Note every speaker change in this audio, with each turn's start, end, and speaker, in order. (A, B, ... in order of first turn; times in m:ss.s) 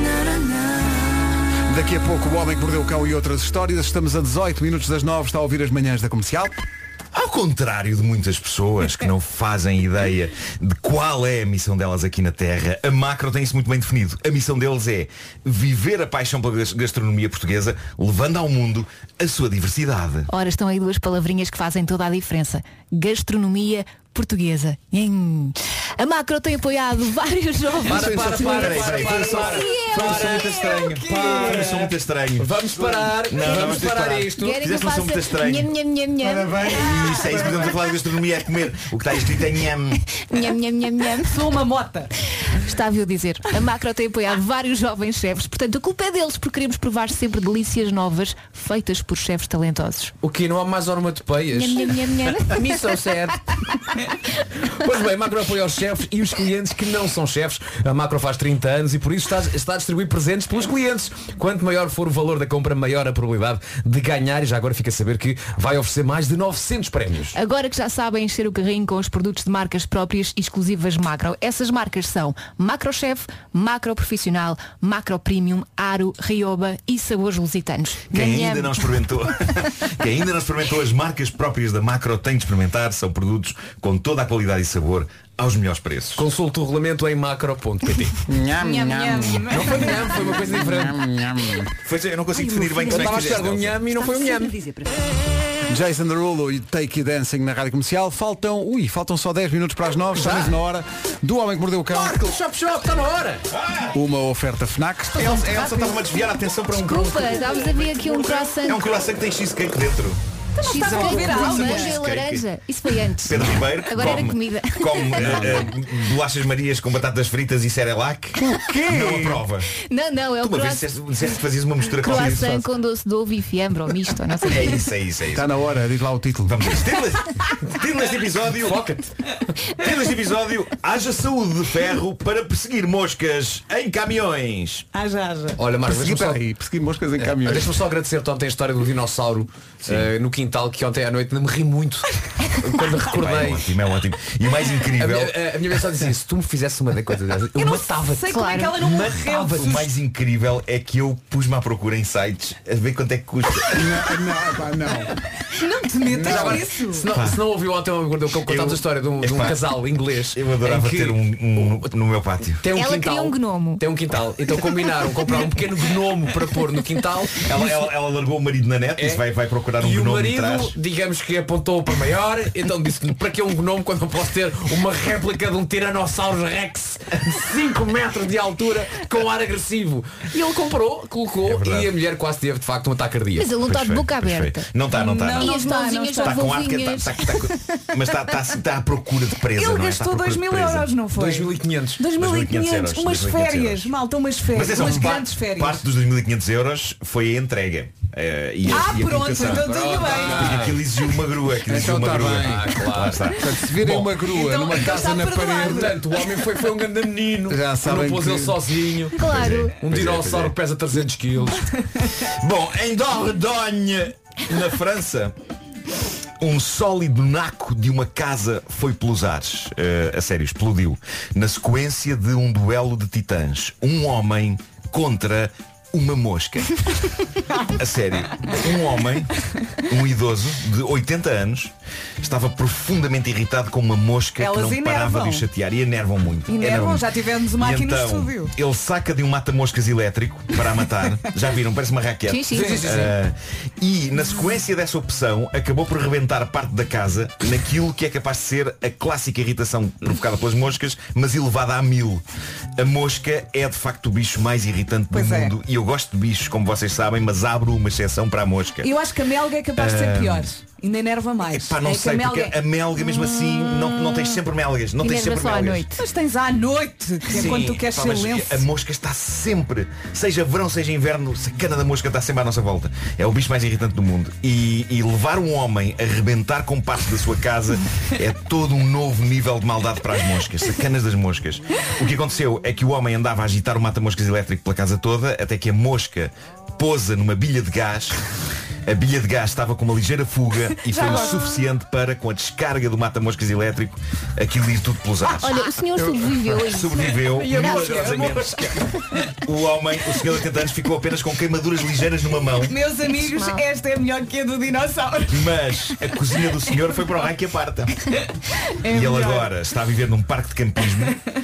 0:01.7-0:06.6 A
0:07.1-0:20.3 B
0:20.3-0:31.0 C
0:27.8-0:30.6 D
0:27.9-0:40.0 B
0:30.9-0:31.7 E
0:31.2-0:34.6 D
0:34.3-0:37.7 C
0:36.7-0:37.5 E
0:40.1-0:41.4 C
0:41.2-0:42.1 E
0:42.5-0:50.1 C
0:50.2-0:53.4 D
0:51.5-0:53.0 C
0:54.7-1:07.4 D
1:07.3-1:19.0 C
1:18.1-1:26.2 B
1:26.2-1:28.1 D
1:28.3-1:31.7 A
1:28.6-1:29.6 E
1:29.5-1:31.0 D
1:31.8-1:33.9 B
1:32.9-1:34.6 D
1:35.7-1:42.2 A
1:40.2-1:40.6 D
1:41.9-1:43.5 D
1:43.5-1:43.9 B
1:43.9-1:45.4 A
1:45.2-1:50.2 B
1:45.2-1:46.2 C
1:46.7-1:48.9 C
1:50.6-1:52.0 E
1:50.6-1:55.4 C
1:50.7-1:52.5 B
1:53.2-1:59.7 B
1:58.4-1:59.4 A
1:59.7-2:00.9 C
2:00.4-2:02.4 B
2:01.9-2:04.9 C
2:02.0-2:02.7 A
2:04.4-2:05.5 B
2:05.3-2:06.6 A
2:06.5-2:08.9 B
2:08.6-2:09.1 D
2:09.8-2:14.8 B
2:14.9-2:15.6 E
2:15.6-2:16.4 D
2:15.8-2:17.8 A
2:17.2-2:23.7 D
2:23.1-2:25.4 B
2:25.0-2:28.4 D
2:27.6-2:29.8 E
2:28.3-2:28.8 C
2:28.8-2:33.9 B
2:29.2-2:29.9 D
2:33.7-2:35.1 A
2:35.5-2:37.1 E
2:36.1-2:36.6 A
2:36.2-2:41.9 D
2:37.1-2:37.4 B
2:38.4-2:39.6 B
2:40.3-2:42.6 B
2:42.6-2:47.9 D
2:42.7-2:43.8 C
2:47.4-2:50.7 B
2:49.0-2:49.2 D
2:49.8-3:03.5 D
3:01.4-3:01.9 B
3:03.4-3:04.7 C
3:03.6-3:10.9 B
3:04.9-3:06.5 E
3:05.3-3:07.8 C
3:09.6-3:15.8 E
3:11.1-3:12.0 D
3:12.1-3:13.9 B
3:14.5-3:23.5 B
3:18.7-3:20.7 E
3:19.4-3:20.8 D
3:21.7-3:22.7 A
3:22.2-3:23.3 D
3:23.4-3:26.0 A
3:23.8-3:24.1 D
3:24.2-3:26.1 E
3:25.6-3:29.2 D
3:27.5-3:28.6 A
3:29.2-3:29.8 C
3:29.2-3:30.5 B
3:29.8-3:31.7 D
3:32.2-3:35.3 B
3:36.4-3:46.8 B
3:47.8-3:49.3 B
3:49.9-4:12.2 B
3:54.4-3:55.4 E
3:56.5-3:58.5 E
4:02.3-4:02.8 C
4:02.5-4:03.2 D
4:12.8-4:18.9 B
4:15.1-4:15.5 E
4:18.8-4:22.6 E
4:19.8-4:20.5 B
4:21.4-4:25.9 B
4:25.0-4:26.0 C
4:25.9-4:28.6 E
4:27.3-4:48.2 B
4:48.8-4:55.7 B
4:50.9-4:51.4 E
4:51.0-4:51.4 C
4:55.3-4:58.3 C
4:56.0-4:56.6 A
4:56.6-4:58.7 B
4:57.4-4:58.4 E
4:57.9-4:58.4 D
4:59.4-5:02.8 B
5:02.7-5:05.5 E
5:03.1-5:03.6 C
5:05.3-5:08.0 B
5:08.8-5:09.5 E
5:08.9-5:11.2 B